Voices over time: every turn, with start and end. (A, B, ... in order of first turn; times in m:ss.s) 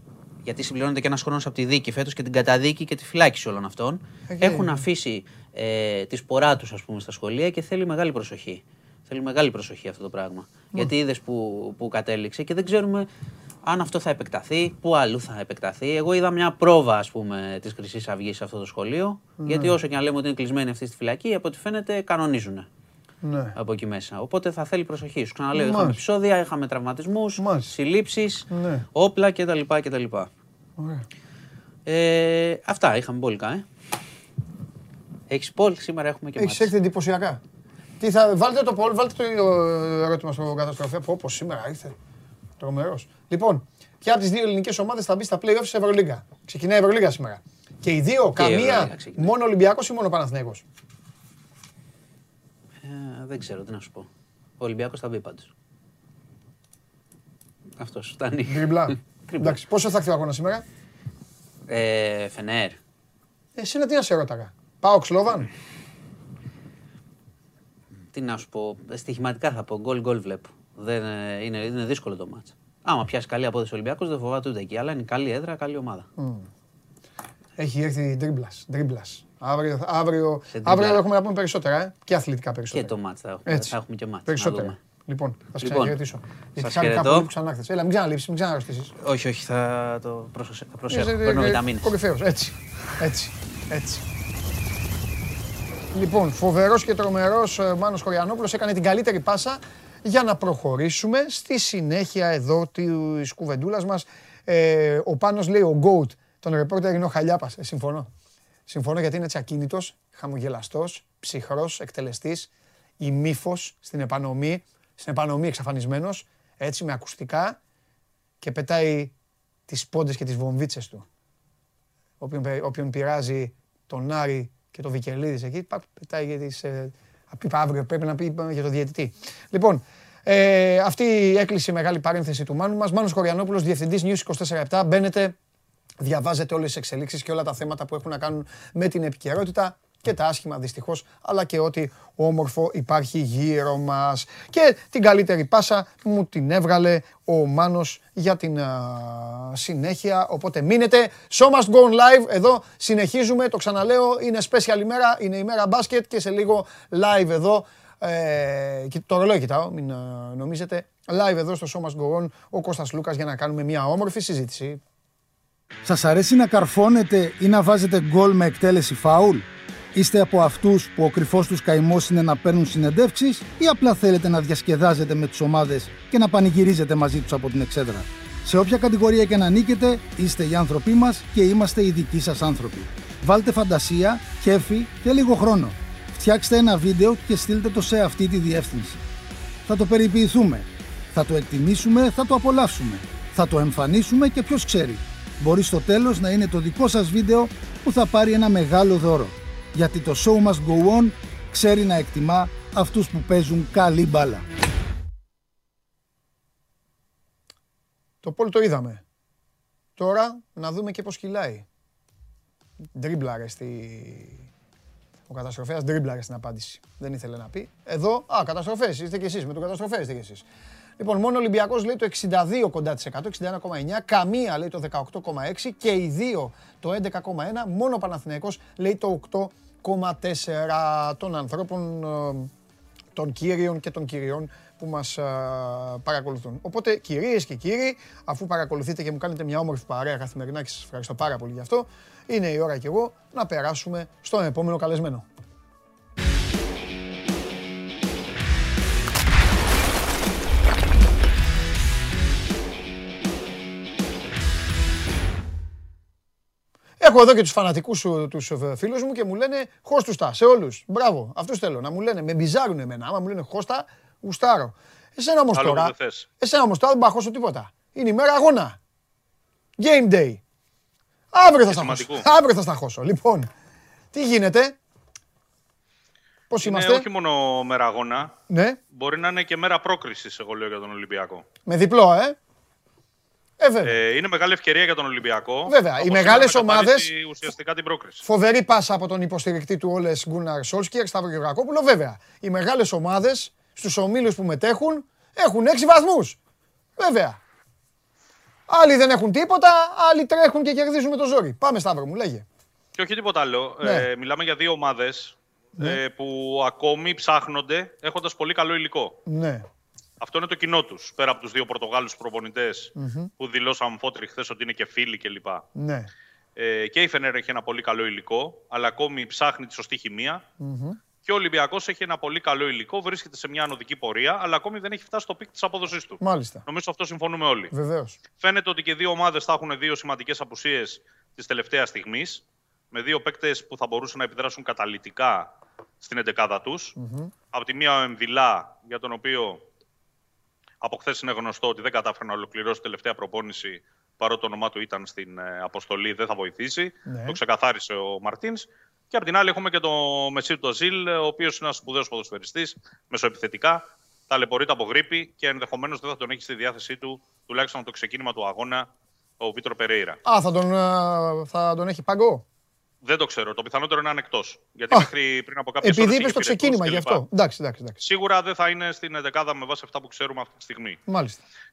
0:00.4-0:13.1 A
0:04.3-0:04.8 B
0:13.6-0:22.7 A
0:19.4-0:19.8 B
0:23.2-0:23.5 B
0:23.6-0:30.3 A
0:25.5-0:26.0 B
0:27.4-0:27.7 B
0:28.5-0:28.8 B
0:30.8-0:31.0 B
0:31.8-0:33.6 A
0:35.3-0:36.7 A
0:36.4-0:37.4 B
0:38.0-0:41.9 B
0:42.6-0:50.6 B
0:48.4-0:49.3 A
0:52.8-0:54.1 A
0:54.6-0:55.5 A
0:57.8-0:58.7 A
0:58.4-1:00.6 B
0:59.3-0:59.6 A
1:01.7-1:02.8 A
1:03.6-1:05.5 B
1:08.1-1:16.1 A
1:16.2-1:16.5 B
1:17.6-1:22.9 B
1:20.5-1:21.0 A
1:22.7-1:24.8 A
1:23.4-1:28.9 B
1:25.6-1:26.0 A
1:26.6-1:27.3 A
1:29.0-1:31.9 A
1:30.9-1:34.0 B
1:35.9-1:48.1 B
1:48.7-1:52.5 B
1:53.0-1:57.6 B
1:58.4-1:59.1 B
1:59.7-2:01.0 B
2:02.2-2:15.4 B
2:16.0-2:44.8 B
2:45.8-3:09.0 C
3:09.7-3:24.4 C
3:28.2-3:29.0 B
3:30.0-3:31.6 B
3:32.9-3:34.5 B
3:35.3-3:40.4 B
3:41.0-3:52.5 B
3:53.1-4:05.2 B
4:17.0-4:28.8 B
4:25.5-4:26.3 D
4:29.8-4:30.4 B
4:31.3-4:33.5 B
4:31.6-4:32.2 D
4:34.1-4:34.7 B
4:36.5-4:37.0 B
4:36.6-4:38.3 D
4:38.5-4:38.8 B
4:38.9-4:41.4 D
4:41.6-4:42.4 B
4:43.6-4:43.9 B
4:43.8-4:48.2 D
4:45.6-4:47.1 B
4:48.2-4:56.4 B
4:57.0-4:57.4 B
4:58.7-5:02.4 B
5:03.0-5:09.2 D
5:03.8-5:04.1 B
5:09.2-5:09.6 B
5:10.2-5:15.6 D
5:13.0-5:13.3 B
5:15.8-5:16.1 B
5:16.6-5:20.4 D
5:20.6-5:21.0 B
5:21.2-5:27.7 D
5:26.2-5:26.6 B
5:27.7-5:28.2 B
5:28.4-5:35.5 D
5:36.0-5:36.9 D
5:37.0-5:37.3 B
5:37.5-5:39.6 D
5:40.8-5:58.9 D
5:47.0-5:47.4 B
5:59.4-6:00.2 D
6:00.2-6:02.4 B
6:03.0-6:07.2 D
6:05.8-6:08.0 B
6:08.0-6:11.0 D
6:11.1-6:11.4 B